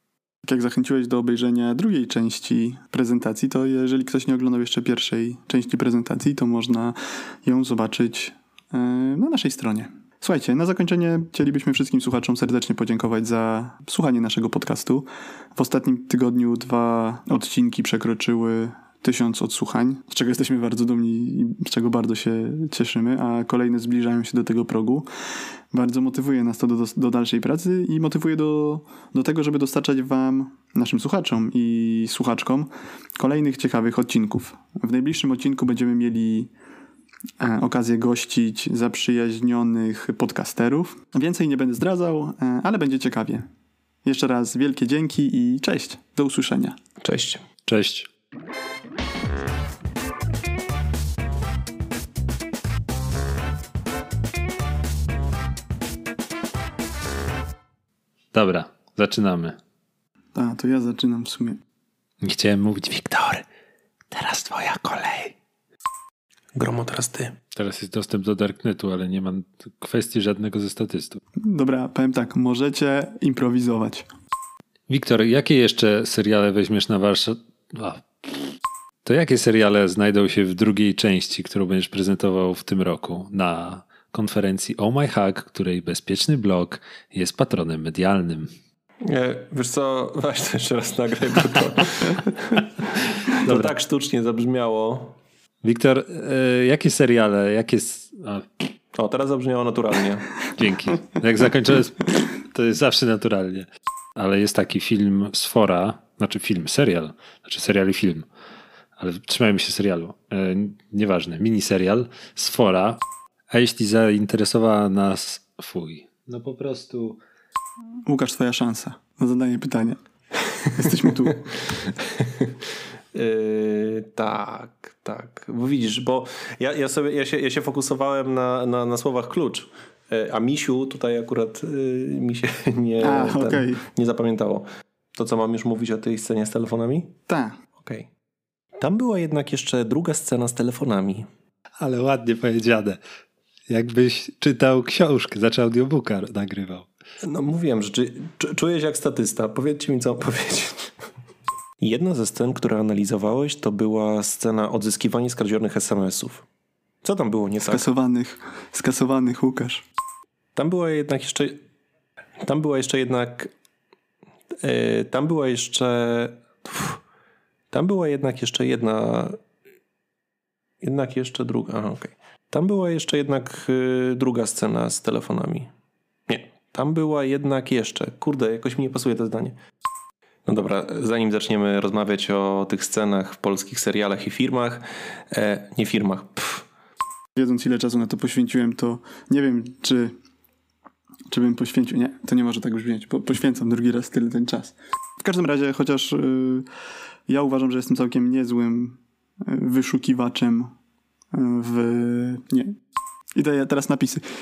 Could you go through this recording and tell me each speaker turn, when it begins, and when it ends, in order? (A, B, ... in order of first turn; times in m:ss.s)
0:00.4-0:25.1 A
0:25.7-0:36.5 A
0:37.4-0:43.5 A
0:44.0-0:46.8 A
0:47.0-0:47.4 B
0:47.7-0:48.1 C
0:58.3-0:59.6 C
1:00.4-1:01.6 A
1:02.2-1:03.4 C
1:04.1-1:05.4 C
1:06.6-1:07.4 B
1:07.5-1:11.2 C
1:11.4-1:14.1 A
1:14.9-1:18.5 C
1:19.0-1:28.5 C
1:29.0-1:35.2 B
1:33.4-1:33.7 C
1:35.6-1:38.7 C
1:38.9-1:40.5 B
1:40.6-1:48.3 C
1:49.0-1:53.0 C
1:53.5-1:57.2 C
1:58.1-2:00.0 A
2:00.6-2:01.5 A
2:02.1-2:02.5 B
2:03.1-2:17.1 B
2:13.0-2:13.8 A
2:17.3-2:17.6 A
2:17.8-2:18.1 B
2:18.8-2:21.3 B
2:21.8-2:23.0 C
2:23.7-2:26.9 C
2:27.2-2:31.0 B
2:31.8-2:36.4 B
2:37.0-2:37.8 B
2:37.6-2:39.8 A
2:40.6-2:41.6 B
2:42.4-2:43.5 B
2:44.6-2:47.0 B
2:47.7-2:49.4 B
2:50.8-2:55.7 B
2:56.3-2:59.6 B
3:00.5-3:06.6 B
3:07.4-3:10.1 A
3:11.3-3:16.6 A
3:17.3-3:20.7 A
3:21.3-3:22.8 A
3:23.4-3:24.2 A